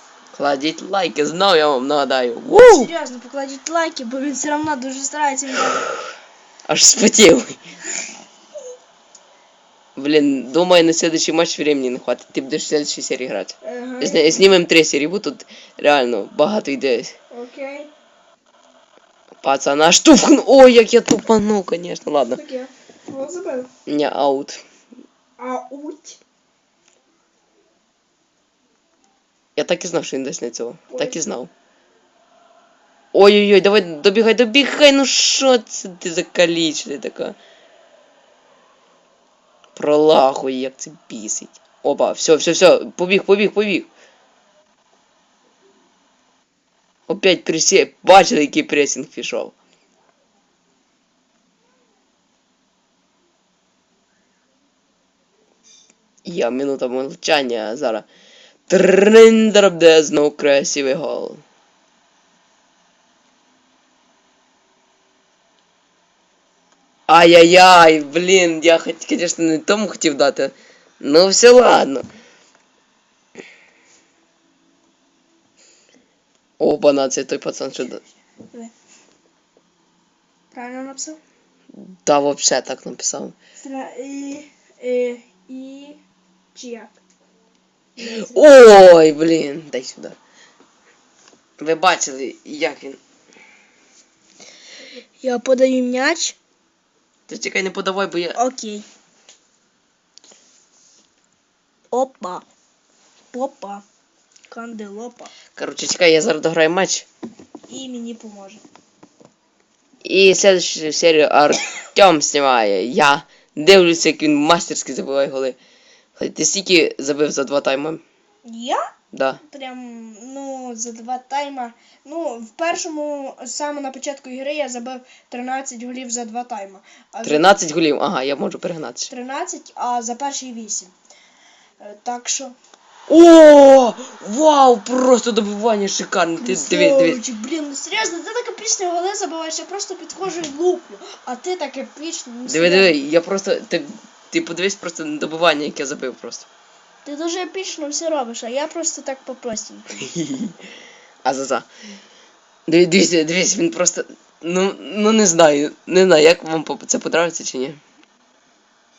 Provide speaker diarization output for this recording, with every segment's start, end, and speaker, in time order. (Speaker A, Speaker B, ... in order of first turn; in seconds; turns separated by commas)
Speaker A: 0.3-2.9, Speaker B: 2.5-5.9, Speaker A: 6.7-7.6, Speaker A: 10.0-17.1, Speaker B: 13.6-14.4, Speaker B: 17.3-17.9, Speaker A: 19.4-22.4, Speaker B: 22.4-23.7, Speaker A: 23.9-24.6, Speaker B: 25.4-26.2, Speaker A: 29.6-31.5, Speaker B: 30.9-31.2, Speaker A: 33.1-37.4, Speaker A: 39.8-43.9, Speaker A: 47.1-49.5, Speaker A: 56.2-58.1, Speaker A: 58.7-61.4, Speaker A: 67.1-72.1, Speaker A: 76.6-78.0, Speaker B: 80.5-81.2, Speaker A: 81.8-83.3, Speaker B: 83.6-86.0, Speaker B: 86.5-87.0, Speaker B: 88.0-88.5, Speaker A: 88.0-90.2, Speaker A: 91.6-93.0, Speaker B: 95.2-96.4, Speaker A: 97.3-98.4, Speaker B: 98.3-98.9, Speaker B: 101.9-102.4, Speaker B: 103.3-103.8, Speaker B: 104.5-105.3, Speaker A: 105.5-107.1, Speaker B: 107.7-108.6, Speaker A: 110.0-115.6, Speaker A: 116.2-118.0, Speaker B: 118.5-118.8, Speaker A: 119.1-119.4, Speaker B: 119.5-127.5, Speaker A: 127.2-129.1, Speaker B: 129.1-130.9, Speaker B: 131.8-132.6, Speaker A: 133.1-137.2, Speaker B: 136.4-143.0, Speaker A: 142.5-146.5, Speaker B: 147.1-150.0, Speaker A: 150.0-150.6, Speaker A: 151.2-151.7, Speaker A: 152.7-157.8